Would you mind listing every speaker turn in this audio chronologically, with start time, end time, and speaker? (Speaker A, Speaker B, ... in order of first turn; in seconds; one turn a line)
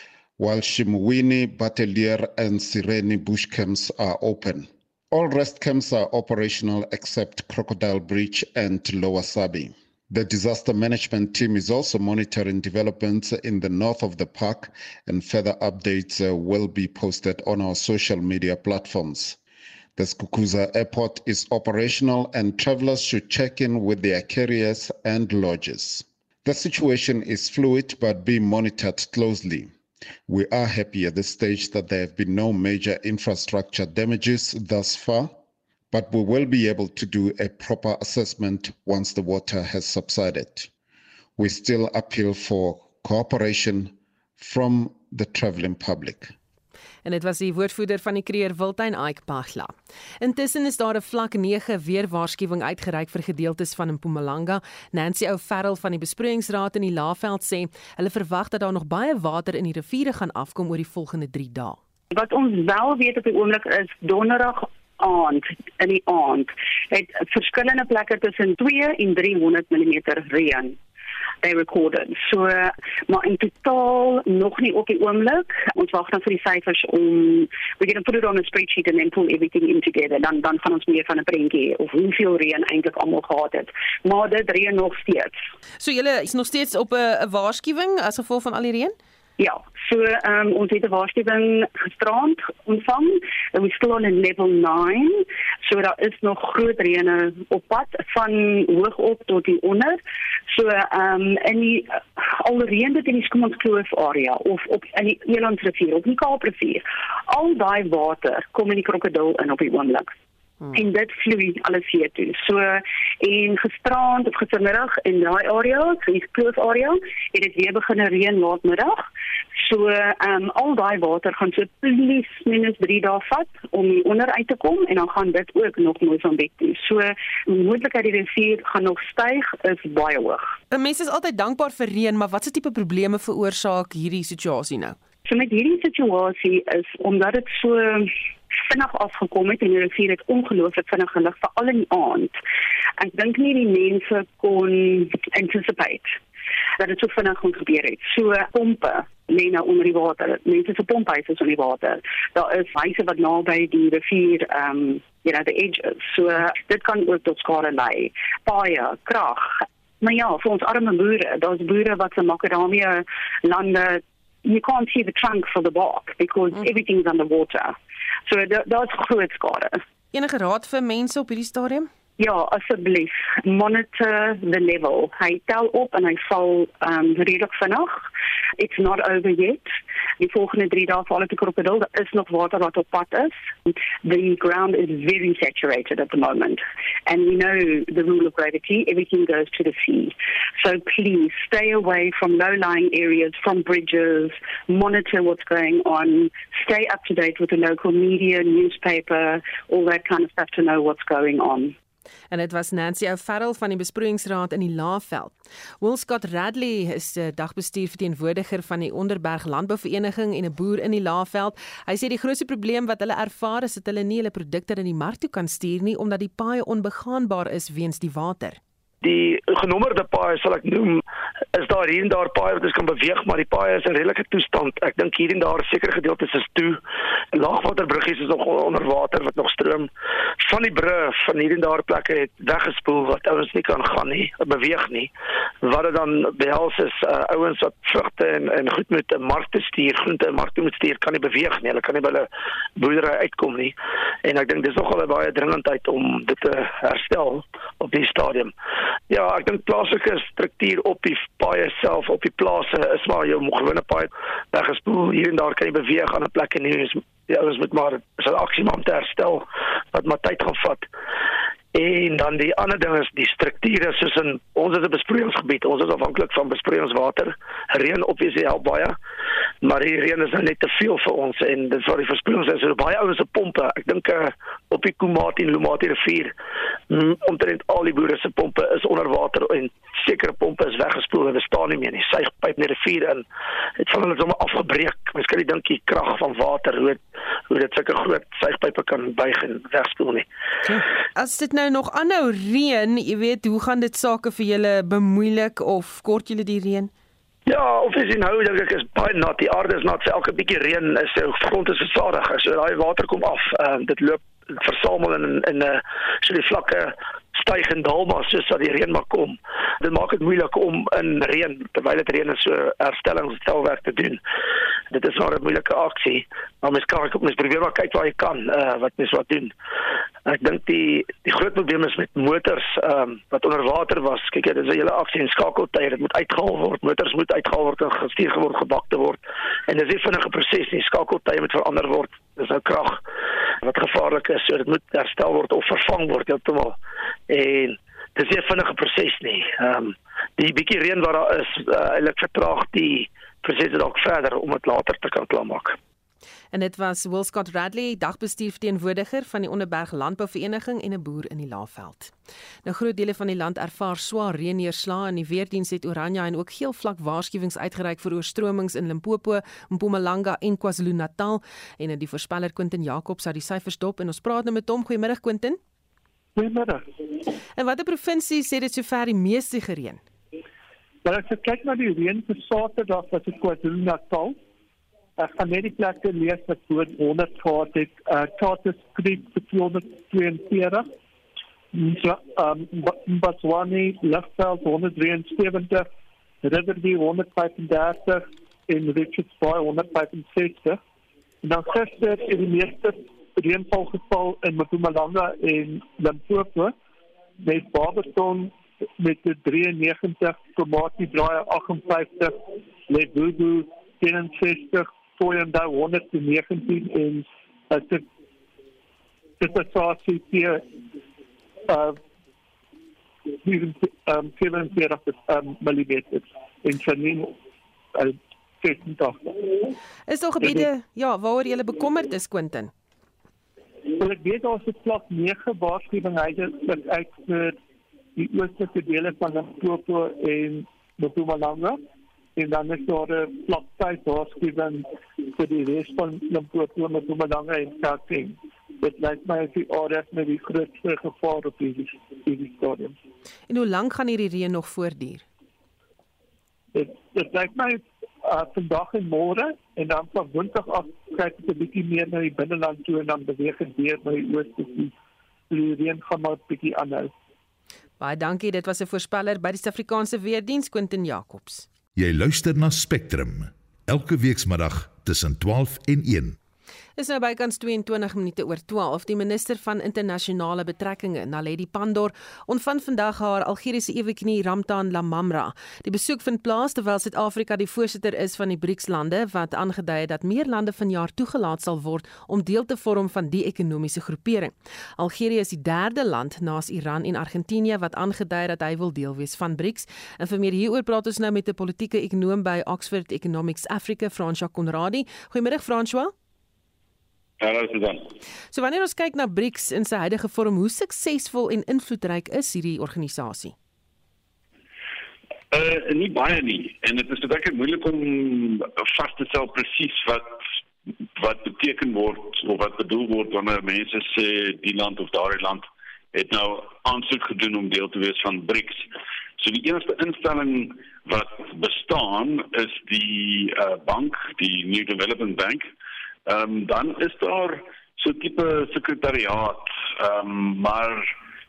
Speaker A: 0.4-19.4
Speaker A: 20.0-29.7
Speaker A: 30.3-35.3
Speaker A: 35.9-40.7
Speaker A: 41.4-46.4
Speaker B: 47.0-61.8
Speaker C: 62.1-70.8
Speaker C: 71.4-85.4
Speaker B: 85.8-89.0
Speaker C: 89.4-110.1
Speaker C: 110.7-119.1
Speaker C: 119.6-130.5
Speaker B: 130.7-135.0
Speaker C: 135.3-138.1
Speaker C: 138.7-142.3
Speaker C: 143.0-146.2
Speaker C: 146.8-167.8
Speaker C: 168.3-169.8
Speaker B: 170.1-171.9
Speaker C: 172.2-178.0
Speaker C: 178.6-201.8
Speaker B: 202.3-218.6
Speaker D: 219.0-221.0
Speaker D: 221.5-226.8
Speaker D: 227.3-235.1
Speaker D: 235.6-248.5
Speaker D: 249.1-260.9
Speaker D: 261.7-269.0
Speaker D: 269.6-276.3
Speaker D: 276.9-283.2
Speaker D: 283.8-290.3
Speaker B: 290.6-296.9
Speaker D: 297.5-314.2
Speaker D: 314.9-319.5
Speaker D: 320.3-333.0
Speaker D: 333.6-336.8
Speaker D: 337.3-345.8
Speaker B: 346.5-352.1
Speaker B: 352.6-365.6
Speaker E: 366.4-366.9
Speaker B: 367.6-370.0
Speaker E: 371.0-374.4
Speaker E: 375.2-380.9
Speaker E: 381.7-385.9
Speaker E: 386.4-390.8
Speaker E: 391.4-396.7
Speaker E: 397.4-402.4
Speaker E: 402.9-408.1
Speaker E: 409.4-410.6
Speaker E: 411.7-412.0
Speaker E: 413.4-417.4
Speaker E: 417.9-419.7
Speaker B: 420.1-422.7
Speaker E: 420.4-420.7
Speaker E: 424.0-427.6
Speaker E: 428.2-431.8
Speaker E: 432.4-443.0
Speaker B: 443.5-445.2
Speaker E: 446.7-454.9
Speaker E: 455.5-457.1
Speaker B: 458.0-461.7
Speaker F: 461.9-466.4
Speaker B: 467.0-496.1
Speaker G: 497.4-498.1
Speaker B: 498.5-503.6
Speaker G: 505.5-510.4
Speaker G: 511.2-525.7
Speaker G: 526.3-531.1